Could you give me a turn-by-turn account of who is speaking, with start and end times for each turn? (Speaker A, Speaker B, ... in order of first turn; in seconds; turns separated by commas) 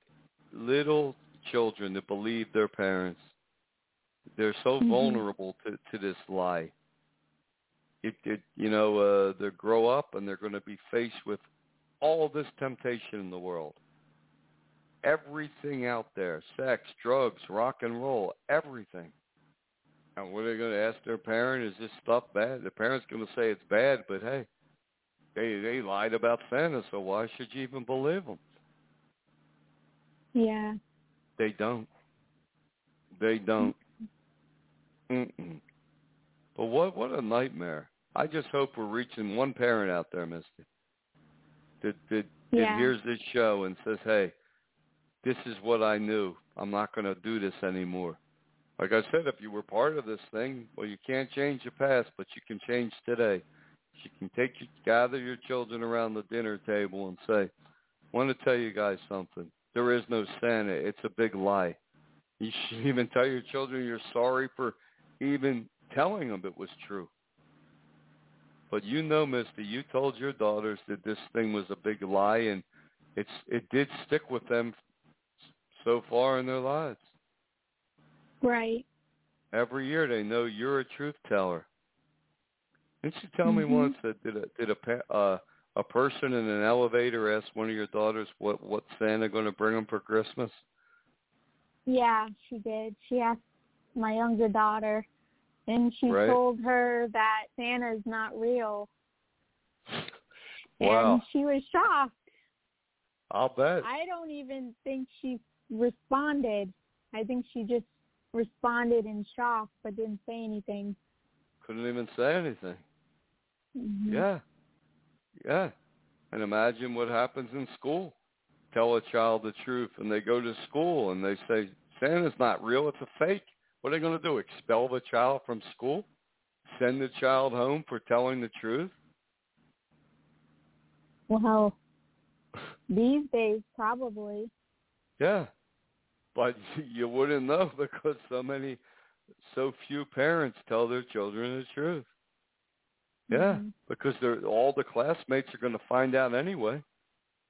Speaker A: 0.5-3.3, Speaker A: 4.3-6.7, Speaker B: 4.8-5.2, Speaker A: 8.0-11.4, Speaker A: 12.0-13.8, Speaker A: 15.0-19.1, Speaker A: 20.1-24.5, Speaker A: 25.3-28.4, Speaker B: 30.3-30.8, Speaker A: 31.4-31.9, Speaker A: 33.1-33.7, Speaker A: 35.1-35.6, Speaker A: 36.5-40.6, Speaker A: 41.8-44.3, Speaker B: 42.5-42.9, Speaker A: 45.2-48.2, Speaker A: 48.8-57.5, Speaker A: 58.1-61.8, Speaker A: 62.4-67.1, Speaker A: 68.7-72.6, Speaker A: 73.2-74.8, Speaker A: 75.7-77.1, Speaker B: 78.4-78.8, Speaker A: 79.5-81.7, Speaker A: 83.0-90.6, Speaker B: 83.4-83.9, Speaker B: 91.9-93.4, Speaker B: 94.0-95.0, Speaker B: 95.7-98.9, Speaker A: 96.1-96.4, Speaker A: 100.8-101.2, Speaker B: 100.8-102.2, Speaker A: 103.3-103.9, Speaker B: 103.8-111.0, Speaker A: 111.6-112.8, Speaker B: 113.8-114.2, Speaker A: 114.1-114.4, Speaker A: 115.4-115.7, Speaker A: 116.3-118.1, Speaker A: 118.7-126.1, Speaker A: 126.7-128.9, Speaker B: 131.3-131.8, Speaker B: 132.9-134.5, Speaker A: 135.2-135.5, Speaker A: 136.3-138.8, Speaker A: 139.4-142.1, Speaker A: 143.3-146.8, Speaker B: 143.3-143.7